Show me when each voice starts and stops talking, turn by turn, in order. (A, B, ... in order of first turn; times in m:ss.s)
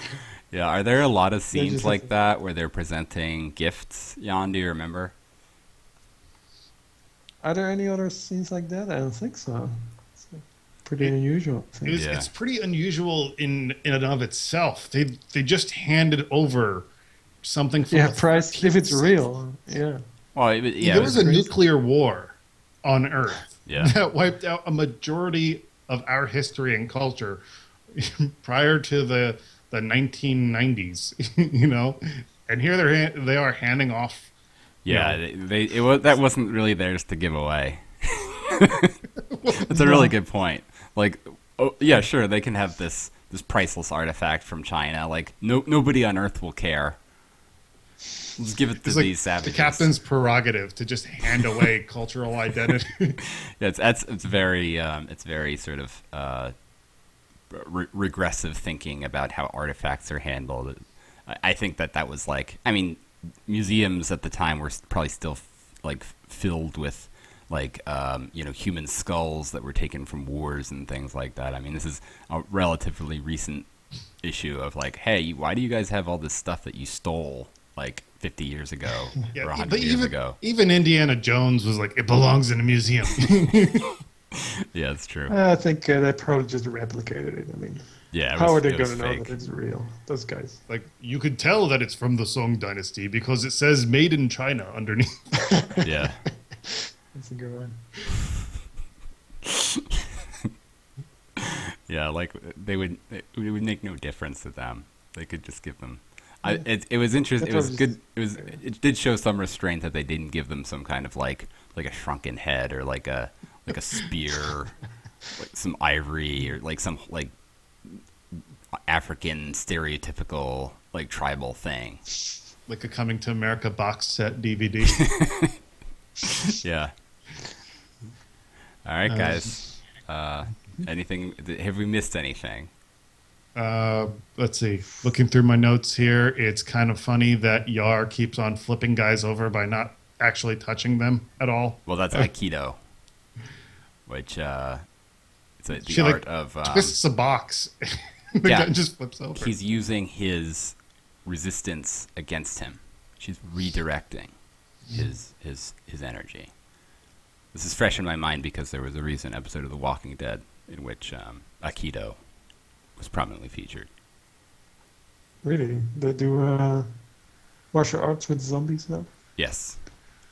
0:00.5-0:05.1 A
0:01.5-0:02.1 B
0:07.4-0:12.0 B
0:11.8-0:16.9 C
0:11.9-0:12.3 A
0:17.4-0:19.1 C
0:17.9-0:20.0 B
0:20.3-0:21.3 A
0:20.8-0:34.3 C
0:20.8-0:21.5 B
0:23.6-0:24.0 A
0:34.8-0:39.0 A
0:34.9-0:35.2 C
0:39.3-0:39.6 C
0:39.5-0:47.0 A
0:39.7-0:40.1 B
0:48.4-0:49.9 A
0:48.8-0:53.2 C
0:53.2-0:56.5 A
0:57.5-1:13.7 A
1:14.2-1:20.4 A
1:19.3-1:23.9 C
1:24.3-1:25.3 A
1:25.3-1:30.6 B
1:28.1-1:29.3 A
1:30.7-1:35.4 C
1:35.8-1:36.2 A
1:37.1-1:37.8 B
1:39.4-1:40.5 A
1:41.4-1:54.8 A
1:47.4-1:48.6 B
1:55.3-1:57.3 A
1:58.7-2:02.0 A
2:02.7-2:05.0 C
2:05.0-2:05.6 A
2:06.2-2:06.9 A
2:08.8-2:12.7 A
2:09.1-2:09.6 C
2:13.5-2:22.3 C
2:21.8-2:22.8 A
2:24.1-2:24.8 A
2:25.6-2:27.0 A
2:25.8-2:29.5 C
2:28.4-2:28.7 A
2:29.3-2:34.3 A
2:34.9-2:36.5 A
2:37.5-2:42.2 A
2:43.0-2:43.9 A
2:45.4-2:46.9 B
2:47.7-2:49.1 B
2:49.4-2:49.8 A